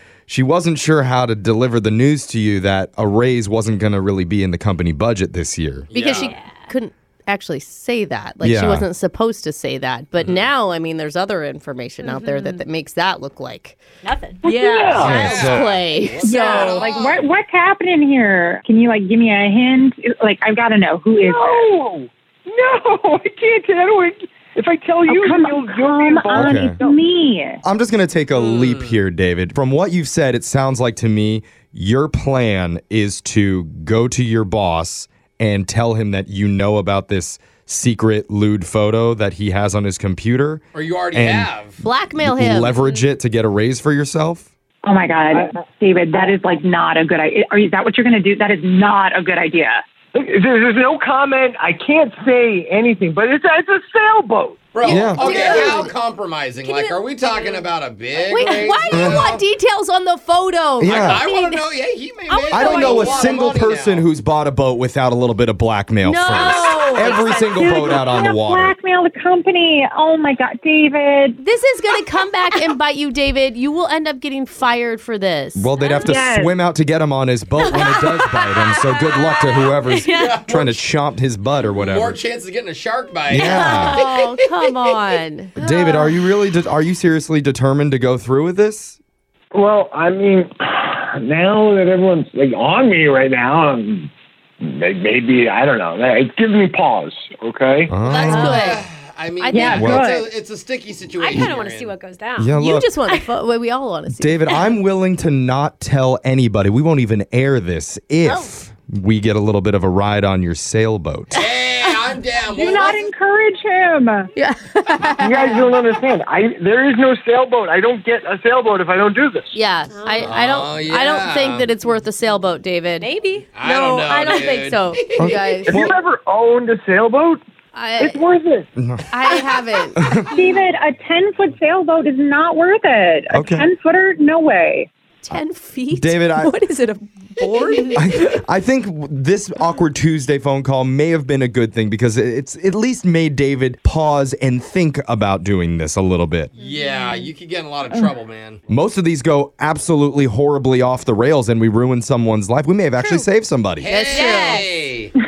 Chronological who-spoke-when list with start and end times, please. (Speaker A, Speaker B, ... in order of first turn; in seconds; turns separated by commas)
Speaker A: 0.3-5.9, Speaker B: 5.9-6.3, Speaker C: 5.9-13.8, Speaker D: 6.2-6.7, Speaker A: 8.4-8.9, Speaker B: 10.2-10.4, Speaker D: 12.0-12.6, Speaker D: 14.0-14.5, Speaker E: 14.4-15.3, Speaker C: 14.4-16.9, Speaker B: 14.9-17.3, Speaker A: 15.0-15.7, Speaker F: 16.2-21.7, Speaker E: 21.2-27.0, Speaker F: 25.1-27.6, Speaker A: 26.3-26.8, Speaker A: 27.6-40.6, Speaker B: 28.4-29.0, Speaker B: 40.7-41.8, Speaker A: 41.1-41.5, Speaker C: 41.8-42.8, Speaker A: 42.2-44.5, Speaker F: 44.8-49.8, Speaker E: 50.1-54.6, Speaker B: 54.7-59.4, Speaker D: 54.8-55.9, Speaker C: 54.9-55.9, Speaker A: 54.9-55.4, Speaker D: 56.6-57.7, Speaker C: 58.3-61.7, Speaker D: 58.3-58.7, Speaker A: 58.9-59.4, Speaker A: 60.8-61.2, Speaker B: 60.8-64.1, Speaker C: 62.3-63.4, Speaker A: 62.5-68.7, Speaker C: 66.0-68.0, Speaker D: 66.3-67.0, Speaker F: 67.6-71.4, Speaker C: 71.4-75.7, Speaker A: 75.5-82.2, Speaker F: 75.9-76.5, Speaker D: 77.7-78.8, Speaker D: 79.4-80.3, Speaker B: 80.1-80.8, Speaker B: 81.8-84.3, Speaker A: 83.3-84.0, Speaker C: 83.3-86.2, Speaker A: 85.6-89.0, Speaker E: 89.5-94.1, Speaker E: 94.6-98.0, Speaker A: 97.9-98.6, Speaker C: 98.0-98.8, Speaker B: 98.2-102.0, Speaker D: 98.3-98.7, Speaker C: 99.4-100.0, Speaker F: 99.5-100.3, Speaker A: 99.7-100.1, Speaker D: 101.1-102.5, Speaker A: 102.4-102.9, Speaker C: 102.6-104.5, Speaker A: 104.2-111.4, Speaker B: 111.3-113.1, Speaker F: 112.5-114.3, Speaker C: 114.4-115.7, Speaker E: 115.2-119.6, Speaker C: 119.5-123.1, Speaker D: 119.9-120.3, Speaker B: 120.2-121.7, Speaker D: 123.0-124.8, Speaker B: 123.5-125.4, Speaker C: 123.6-125.8, Speaker A: 125.2-126.0, Speaker E: 125.7-127.4, Speaker C: 127.7-128.2, Speaker E: 128.0-128.7, Speaker A: 128.8-129.1, Speaker C: 129.1-130.1, Speaker A: 130.0-130.3, Speaker F: 130.3-134.9, Speaker A: 133.3-133.7, Speaker C: 135.2-138.0, Speaker A: 135.9-136.6, Speaker A: 137.9-146.5, Speaker B: 146.6-148.6, Speaker D: 146.8-147.1, Speaker A: 148.7-153.9, Speaker B: 153.8-155.2, Speaker C: 153.9-154.7, Speaker D: 154.1-154.6